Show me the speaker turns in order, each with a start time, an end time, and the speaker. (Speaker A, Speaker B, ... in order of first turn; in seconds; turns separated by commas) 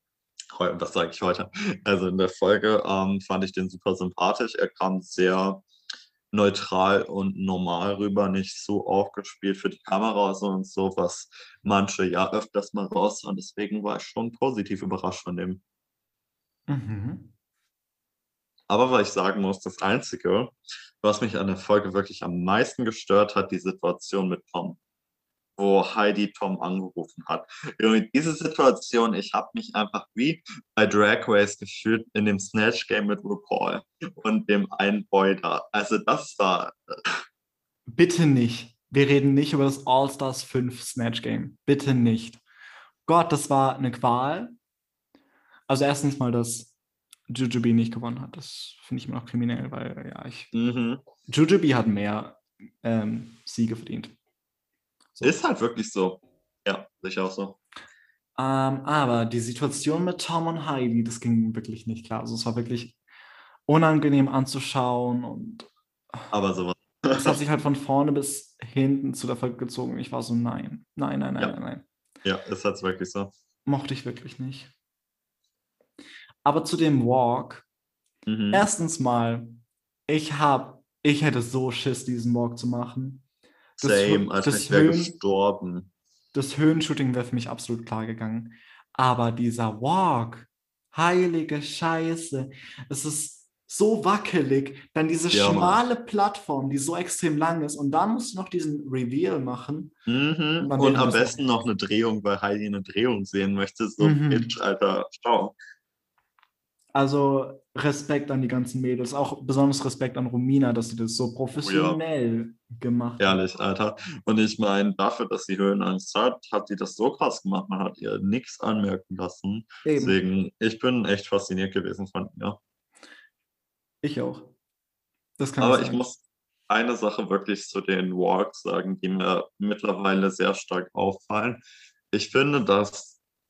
Speaker A: 0.6-5.6, Speaker A: 6.3-15.6, Speaker B: 16.7-17.3, Speaker A: 18.7-24.8, Speaker A: 25.6-37.1, Speaker B: 37.9-42.4, Speaker B: 43.0-44.5, Speaker B: 45.7-46.7, Speaker B: 47.3-50.5, Speaker A: 50.5-51.0, Speaker B: 51.3-54.1, Speaker B: 55.1-55.4, Speaker A: 55.2-57.6, Speaker B: 58.4-63.0, Speaker B: 63.7-65.7, Speaker A: 66.3-67.4, Speaker B: 67.1-71.8, Speaker A: 72.2-73.3, Speaker B: 73.7-74.7, Speaker B: 76.4-77.6, Speaker A: 78.3-78.7, Speaker B: 78.5-83.2, Speaker A: 83.8-85.9, Speaker B: 83.8-85.2, Speaker B: 86.3-100.0, Speaker A: 95.3-95.8, Speaker A: 100.0-105.5, Speaker B: 100.6-101.4, Speaker B: 104.0-104.5, Speaker B: 106.9-113.4, Speaker A: 111.6-112.0, Speaker A: 113.2-122.6, Speaker B: 119.8-120.2, Speaker B: 124.0-124.5, Speaker B: 125.4-126.0, Speaker A: 125.6-133.2